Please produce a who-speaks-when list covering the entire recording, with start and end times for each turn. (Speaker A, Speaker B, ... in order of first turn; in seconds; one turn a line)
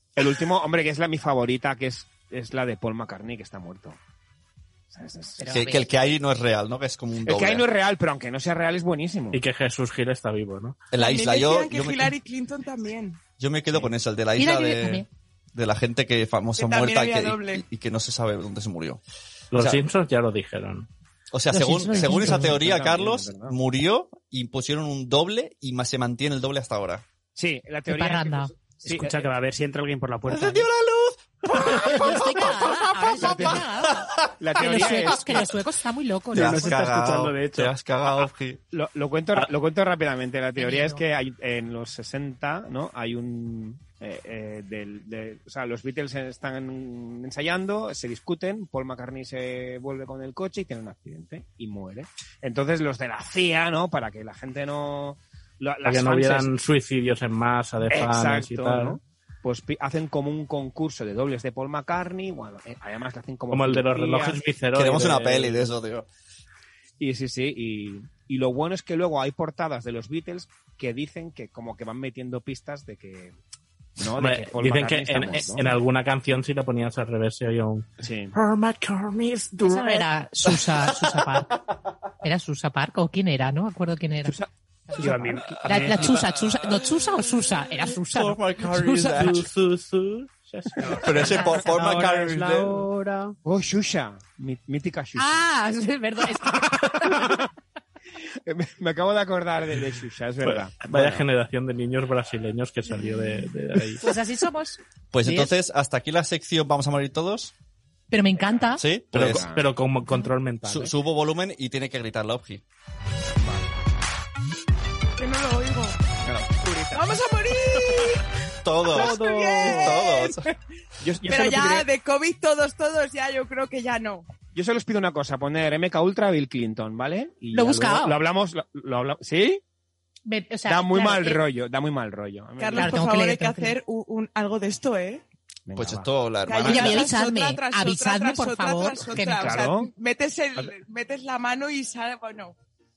Speaker A: 0.1-4.0
Speaker A: 4.9-5.6
Speaker B: 5.4-5.9
Speaker C: 5.5-7.7
Speaker A: 7.2-9.4
Speaker D: 9.3-10.9
Speaker C: 10.9-12.1
Speaker E: 10.9-13.2
Speaker C: 13.4-19.0
Speaker B: 14.3-15.1
Speaker E: 16.6-17.6
Speaker D: 19.5-20.9
Speaker C: 19.5-19.8
Speaker C: 21.3-27.0
Speaker B: 21.5-22.6
Speaker A: 22.0-23.6
Speaker A: 27.4-29.2
Speaker B: 27.9-28.5
Speaker F: 28.9-30.7
Speaker C: 30.3-34.1
Speaker B: 31.7-36.9
Speaker A: 33.1-33.9
Speaker A: 34.4-35.5
Speaker C: 36.3-38.6
Speaker F: 36.3-37.7
Speaker A: 38.7-56.5
Speaker B: 40.6-41.0
Speaker D: 55.8-59.0
Speaker A: 57.9-64.4
Speaker D: 63.5-65.7
Speaker C: 64.7-66.1
Speaker A: 67.0-73.3
Speaker A: 74.0-75.8
Speaker D: 74.2-80.1
Speaker A: 78.0-78.3
Speaker B: 79.6-81.6
Speaker B: 82.2-84.3
Speaker B: 84.9-88.4
Speaker F: 85.0-86.2
Speaker C: 87.8-89.5
Speaker D: 88.7-91.5
Speaker F: 90.8-93.3
Speaker C: 91.0-92.8
Speaker B: 91.2-91.7
Speaker A: 93.4-95.5
Speaker B: 95.2-97.3
Speaker A: 96.8-97.5
Speaker A: 98.4-101.2
Speaker D: 100.4-104.0
Speaker B: 104.0-105.5
Speaker C: 105.1-107.5
Speaker B: 108.1-108.8
Speaker C: 108.8-109.4
Speaker D: 109.1-110.9
Speaker A: 109.1-109.7
Speaker C: 110.7-112.6
Speaker A: 113.4-113.7
Speaker E: 115.2-116.0
Speaker C: 116.2-116.5
Speaker A: 116.6-117.1
Speaker E: 116.9-118.2
Speaker C: 118.6-120.5
Speaker E: 118.8-120.5
Speaker A: 118.9-119.9
Speaker A: 121.0-121.9
Speaker E: 121.3-124.3
Speaker A: 124.5-129.6
Speaker B: 127.5-128.2
Speaker B: 130.2-131.4
Speaker A: 130.7-133.1
Speaker E: 132.6-135.2
Speaker B: 132.7-133.8
Speaker A: 135.7-136.1
Speaker C: 135.7-137.1
Speaker E: 136.4-142.5
Speaker B: 136.6-139.6
Speaker A: 139.2-139.9